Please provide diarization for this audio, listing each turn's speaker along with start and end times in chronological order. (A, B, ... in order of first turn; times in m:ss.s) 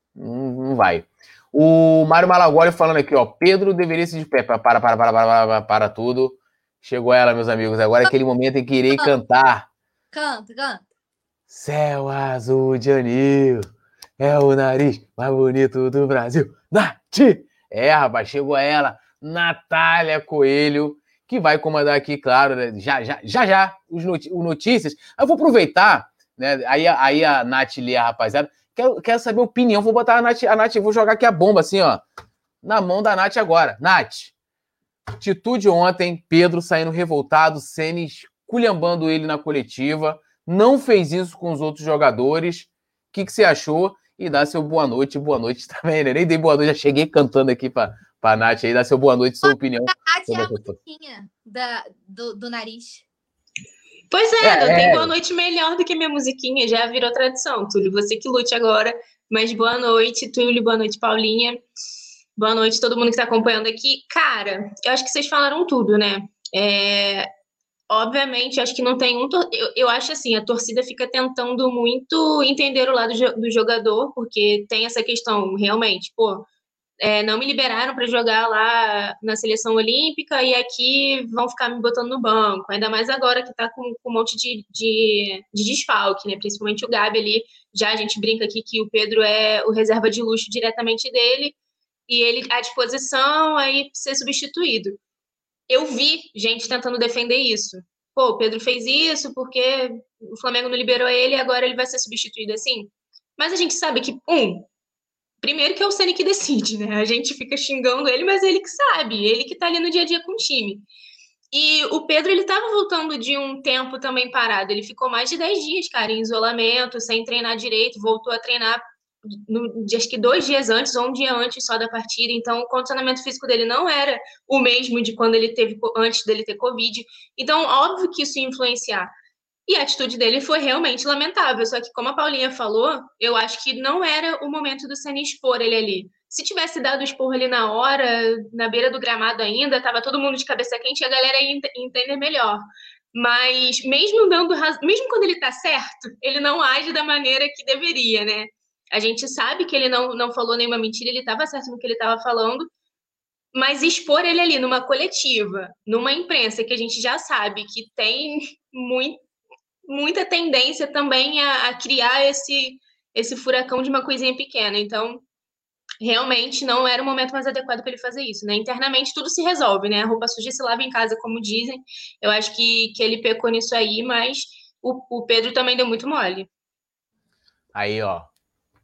0:00.2-0:09.7 A
0:10.1-0:10.9 B
0:11.5-0:13.7 A
0:14.2-0:32.0 A
0:32.6-0:34.3 A
0:35.2-0:50.7 A
0:49.4-0:53.0 B
0:54.1-1:01.6 C
0:54.4-0:55.1 A
1:02.4-1:07.3 C
1:07.9-1:16.5 C
1:17.0-1:31.6 C
1:32.1-1:35.0 C
1:35.7-1:44.7 C
1:45.4-1:50.8 C
1:51.5-2:09.1 C
2:09.7-2:22.6 C
2:23.1-2:32.7 C
2:33.5-2:39.2 C
2:39.9-2:45.2 C
2:46.0-2:56.5 C
2:57.7-2:58.3 A